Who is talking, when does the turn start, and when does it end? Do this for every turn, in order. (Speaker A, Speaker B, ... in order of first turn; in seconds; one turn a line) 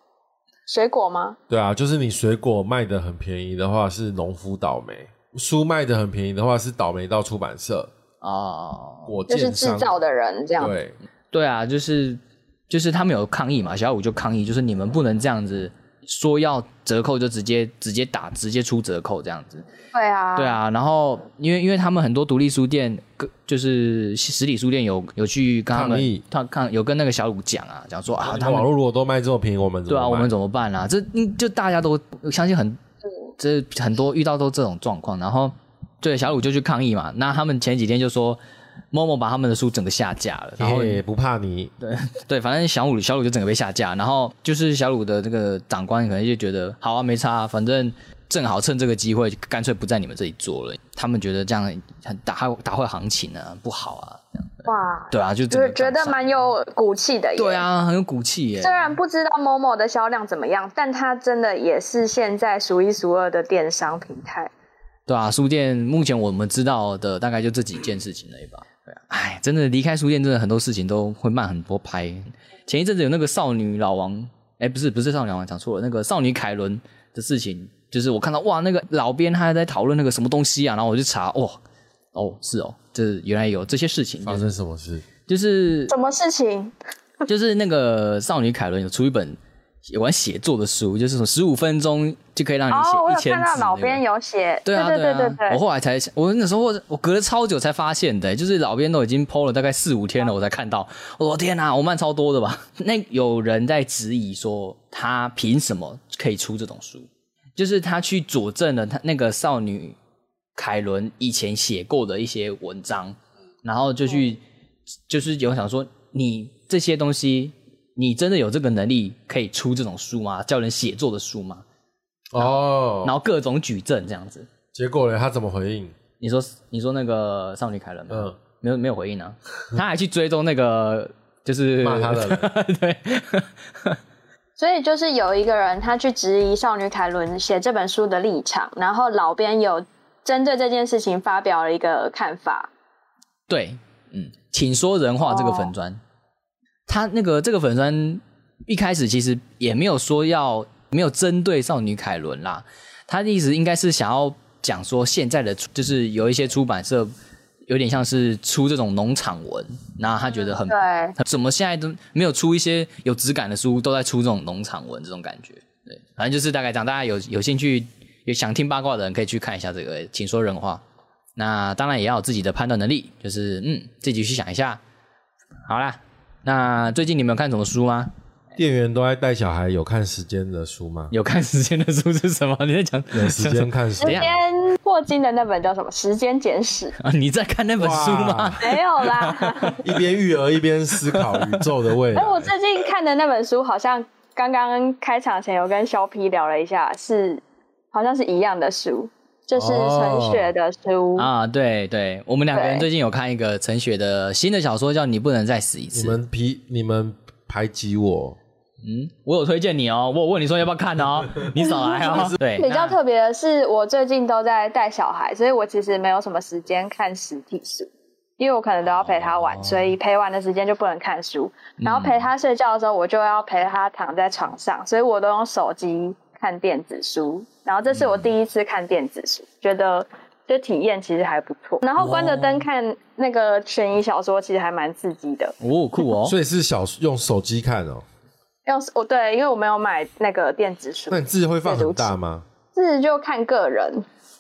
Speaker A: 0.7-1.4
Speaker B: 1.5-7.9
Speaker C: 8.2-9.1
Speaker B: 9.1-9.9
Speaker A: 9.3-10.7
Speaker B: 10.6-10.9
Speaker C: 11.3-19.6
Speaker A: 19.9-20.6
Speaker C: 20.4-28.7
Speaker B: 25.7-26.2
Speaker B: 28.2-30.3
Speaker C: 29.9-32.8
Speaker C: 33.4-38.4
Speaker C: 38.9-41.0
Speaker B: 40.6-41.7
Speaker C: 41.8-56.2
Speaker A: 54.6-57.6
Speaker C: 57.4-58.9
Speaker A: 58.6-64.5
Speaker C: 65.1-81.6
Speaker C: 82.1-84.5
Speaker B: 84.2-85.1
Speaker C: 85.3-85.9
Speaker A: 85.9-86.7
Speaker C: 87.3-94.0
Speaker A: 92.7-95.6
Speaker C: 94.7-110.0
Speaker C: 110.5-114.4
Speaker C: 115.1-121.6
Speaker B: 122.3-123.1
Speaker C: 122.4-124.5
Speaker B: 124.7-125.9
Speaker C: 126.2-134.0
Speaker B: 128.1-128.4
Speaker B: 131.8-132.5
Speaker A: 134.6-142.7
Speaker C: 143.5-146.0
Speaker A: 145.2-145.7
Speaker C: 146.9-157.1
Speaker C: 157.7-170.8
Speaker A: 160.6-161.1
Speaker C: 171.4-174.8
Speaker C: 175.7-178.1
Speaker B: 178.6-181.1
Speaker C: 181.1-184.3
Speaker B: 183.1-184.4
Speaker A: 184.0-186.9
Speaker C: 187.0-189.8
Speaker B: 187.8-188.6
Speaker A: 188.6-189.8
Speaker B: 189.8-192.5
Speaker C: 191.1-191.6
Speaker A: 192.1-197.4
Speaker A: 197.9-201.3
Speaker B: 199.5-200.5
Speaker C: 201.2-206.2
Speaker A: 202.5-202.9
Speaker B: 205.9-208.4
Speaker C: 208.8-213.0
Speaker A: 211.6-235.5
Speaker C: 218.9-219.9
Speaker C: 221.8-222.2
Speaker C: 227.9-228.3
Speaker C: 232.0-232.7
Speaker C: 235.6-236.3
Speaker B: 236.2-238.0
Speaker A: 238.7-242.1
Speaker B: 241.1-242.4
Speaker A: 242.7-244.1